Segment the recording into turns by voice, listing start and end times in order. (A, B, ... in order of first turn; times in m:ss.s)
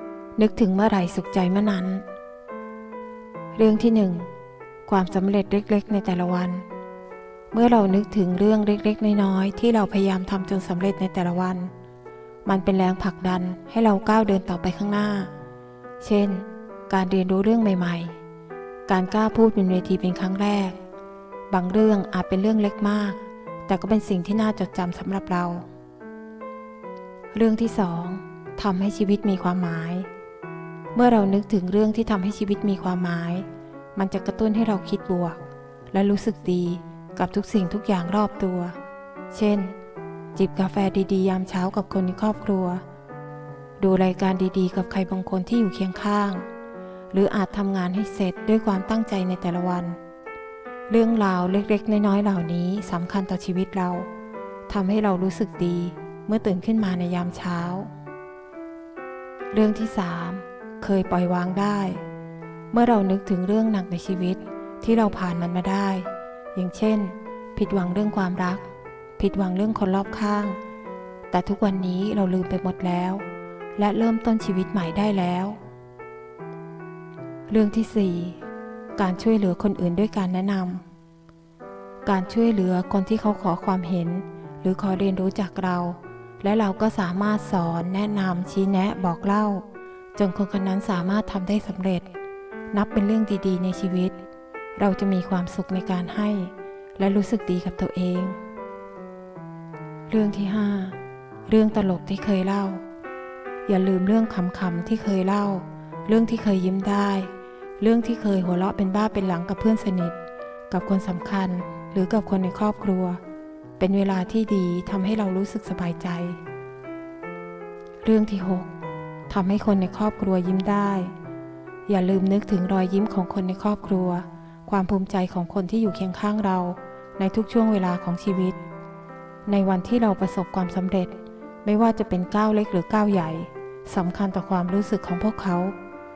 0:00.4-0:02.0 A
0:03.5-0:04.3 A
0:04.9-0:06.6 A
0:07.5-0:11.7 A
0:12.4-0:15.3 A
0:16.0-0:18.2 A
0:18.9-0:20.8 A
0:21.5-0:25.7 A
0:27.3-0:30.1 A
0:30.9-0:35.4 A
0:35.9-0:38.8 A
0:39.3-0:39.8 A
0:40.3-0:42.8 A
0:43.8-0:46.5 A
0:47.1-0:50.0 A
0:50.9-0:54.1 A
0:54.7-0:57.9 A
0:59.5-1:02.0 A
1:02.7-1:10.6 A
1:11.3-1:13.2 A
1:13.8-1:15.6 A
1:17.5-1:18.4 A
1:19.0-1:20.8 A
1:22.0-1:32.1 A
1:32.7-1:34.2 A
1:34.7-1:38.4 A
1:40.1-1:42.8 A
1:43.6-1:50.2 A
1:50.7-1:53.2 A
1:53.8-1:56.4 A
1:58.0-1:58.7 A
1:59.3-2:01.1 A
2:01.9-2:08.6 A
2:09.4-2:15.7 A